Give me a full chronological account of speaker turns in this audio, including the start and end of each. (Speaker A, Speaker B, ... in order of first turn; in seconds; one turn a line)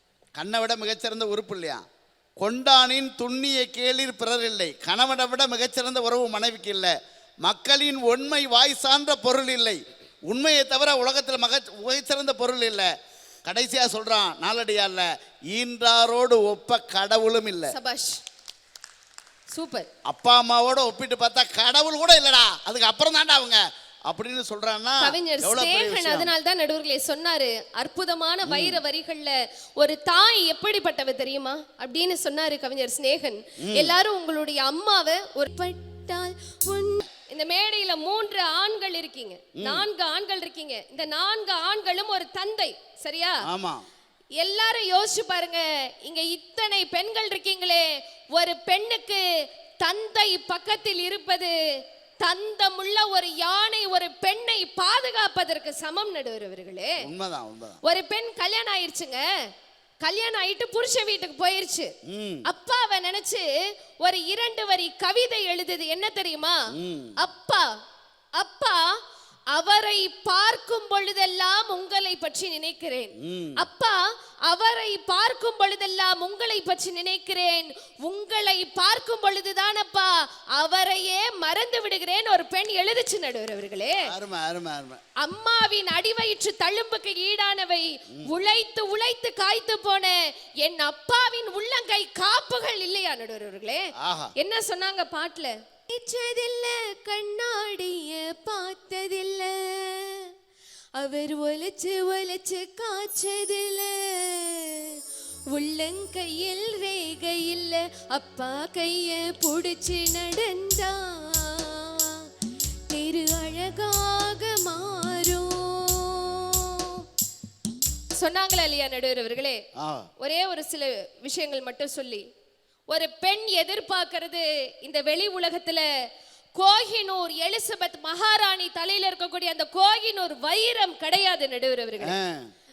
Speaker A: 0.3-1.8
Speaker A: 2.4-12.9
Speaker A: 13.4-17.7
Speaker B: 17.7-18.2
Speaker B: 19.5-19.9
Speaker A: 20.1-26.3
Speaker B: 25.0-43.4
Speaker A: 28.4-28.8
Speaker A: 33.6-34.0
Speaker A: 39.6-39.8
Speaker A: 43.5-43.8
Speaker B: 44.4-49.2
Speaker B: 49.8-51.5
Speaker B: 52.2-57.0
Speaker A: 57.0-57.8
Speaker B: 57.8-59.2
Speaker B: 60.0-61.9
Speaker A: 62.1-62.4
Speaker B: 62.5-63.5
Speaker B: 64.0-66.6
Speaker A: 66.7-67.2
Speaker B: 67.2-67.7
Speaker B: 68.4-69.0
Speaker B: 69.5-84.1
Speaker A: 73.2-73.6
Speaker A: 84.0-85.0
Speaker B: 85.2-100.3
Speaker A: 94.0-94.3
Speaker B: 101.0-112.3
Speaker B: 112.9-117.0
Speaker B: 118.1-119.6
Speaker A: 119.8-120.1
Speaker B: 120.2-122.2
Speaker B: 122.9-125.9
Speaker B: 126.5-132.1
Speaker A: 132.0-132.5